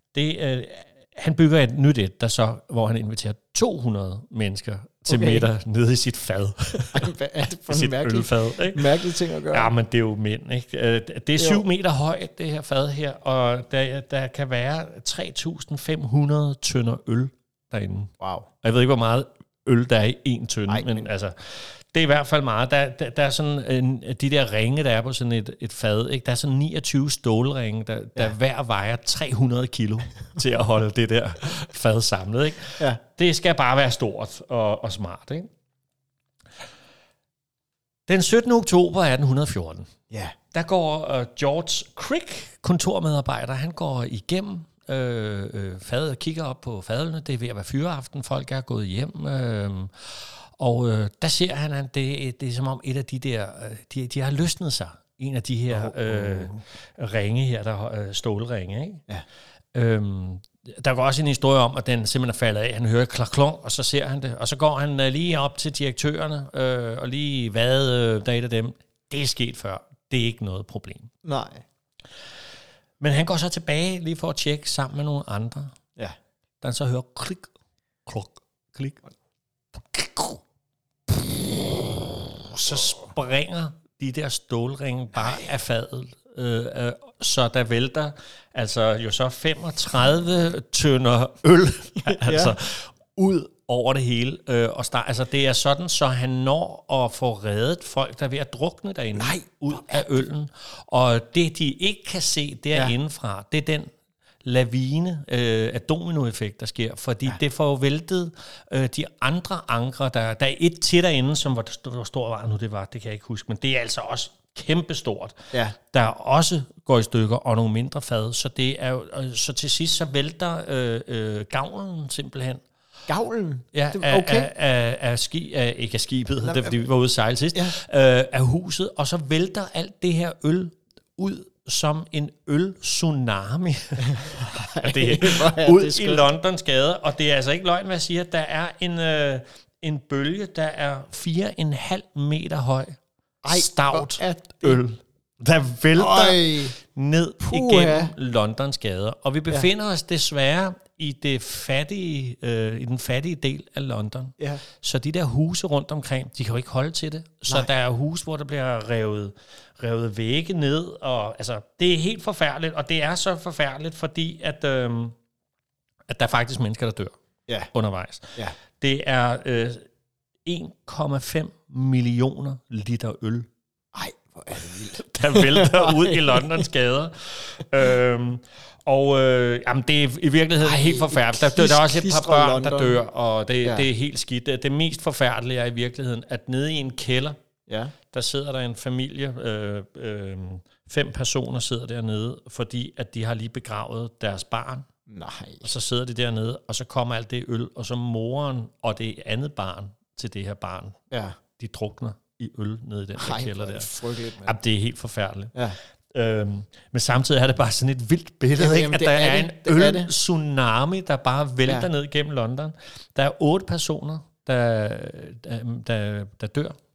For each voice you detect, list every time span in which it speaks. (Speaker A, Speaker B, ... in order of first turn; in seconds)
Speaker A: 0.1-7.1, 7.7-8.8, 9.5-35.5, 38.1-39.9, 40.5-59.0, 59.7-71.1, 73.0-75.7, 76.6-77.5, 78.0-79.0, 79.8-80.4, 81.1-103.9, 104.4-122.6, 123.7-143.0, 143.5-165.1, 166.1-167.1, 167.7-169.9, 170.4-173.5, 174.9-187.4, 188.1-194.9, 195.6-201.0, 201.6-205.6, 206.1-216.8
Speaker B: 5.1-5.5, 6.9-9.7, 11.3-11.6, 18.2-18.5, 20.7-21.1, 40.1-40.3, 55.7-56.6, 71.2-71.6, 85.1-85.5, 92.0-92.6, 99.1-100.2, 123.1-124.5, 126.4-126.8, 134.0-136.3, 143.4-144.8, 145.9-146.7, 147.4-148.1, 173.9-176.5, 180.6-183.0, 183.6-183.9, 187.7-187.9, 195.1-195.7, 201.1-201.3, 203.2-204.6, 208.5-210.1, 211.6-211.9